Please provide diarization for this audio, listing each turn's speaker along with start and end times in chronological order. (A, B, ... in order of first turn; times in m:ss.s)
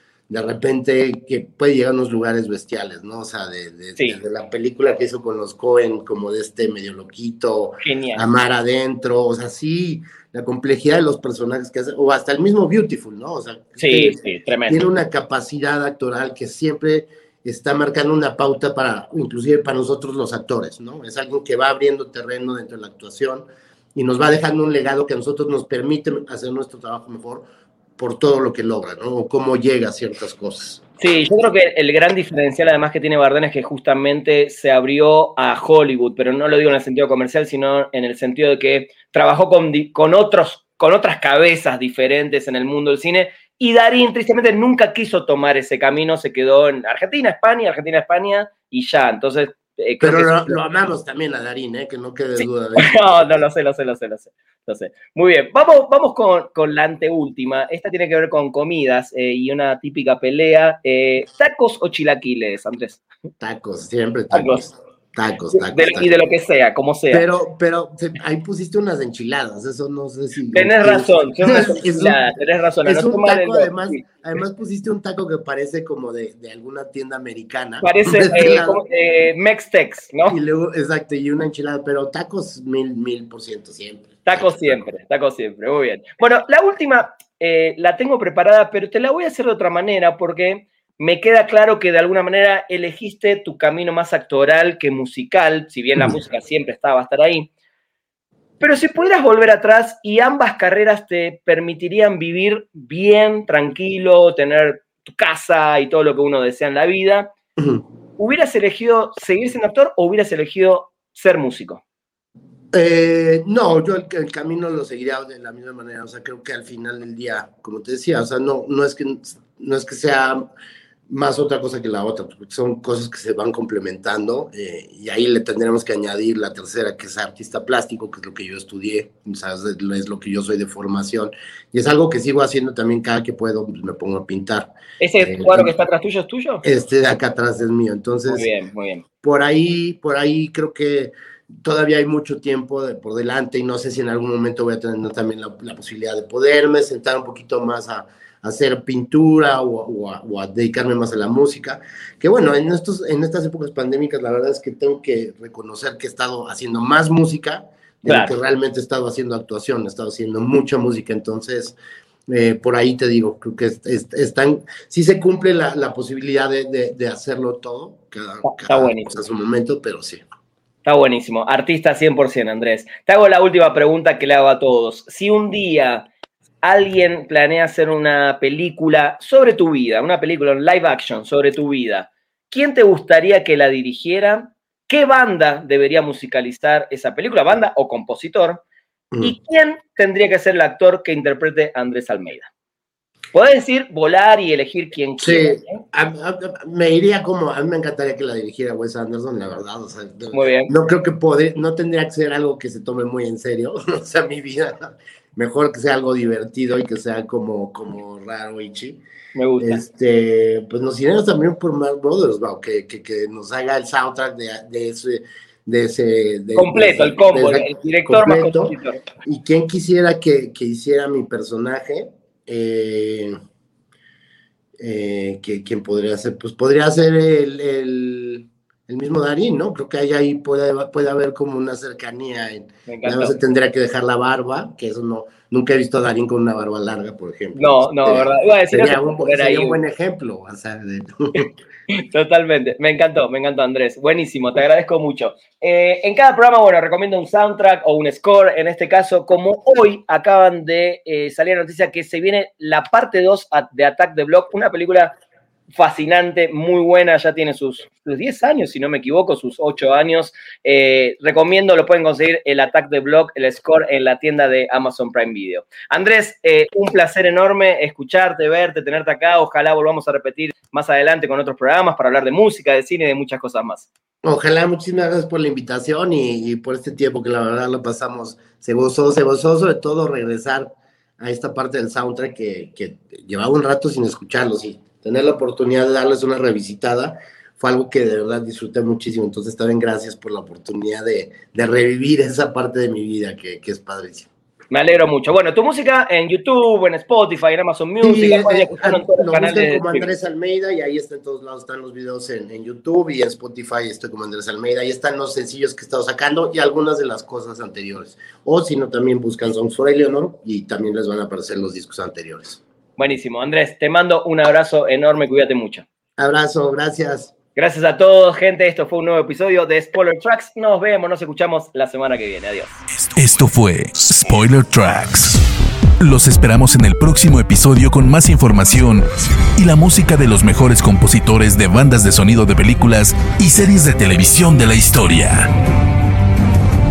0:00.3-0:14.2 A
0:07.8-0:08.3 B
0:13.8-0:14.8 B
0:14.7-0:30.8 A
0:31.0-0:50.6 B
0:50.0-0:53.0 A
0:52.4-1:03.0 B
1:03.4-1:06.2 A
1:04.3-1:04.7 B
1:05.5-1:07.3 B
1:07.1-1:12.2 A
1:10.5-1:14.0 B
1:12.8-1:18.8 A
1:17.8-1:20.4 B
1:20.3-1:24.5 A
1:24.3-1:37.5 B
1:38.6-1:47.3 B
1:47.6-1:47.8 A
1:48.2-1:51.8 B
1:52.7-2:00.4 A
2:01.1-2:15.7 A
2:15.0-2:16.6 B
2:16.6-2:18.5 A
2:18.3-2:19.0 B
2:19.2-2:41.8 A
2:38.0-2:38.4 B
2:42.3-2:50.2 A
2:48.4-2:49.2 B
2:50.8-2:56.1 B
2:56.6-3:08.6 B
3:09.2-3:12.5 B
3:13.3-3:15.8 B
3:15.2-3:29.0 A
3:20.3-3:20.7 B
3:29.4-3:29.8 B
3:29.6-3:43.4 A
3:36.6-3:39.1 B
3:44.8-4:01.5 A
3:52.9-3:53.4 B
3:57.6-3:59.8 B
4:01.9-4:15.2 B
4:15.7-4:33.9 B
4:34.2-4:54.3 A
4:54.7-5:00.1 B
4:58.0-5:12.6 A
5:13.0-5:15.9 B
5:16.2-5:17.3 A
5:17.6-5:22.7 B
5:23.1-5:25.4 C
5:26.0-5:35.5 C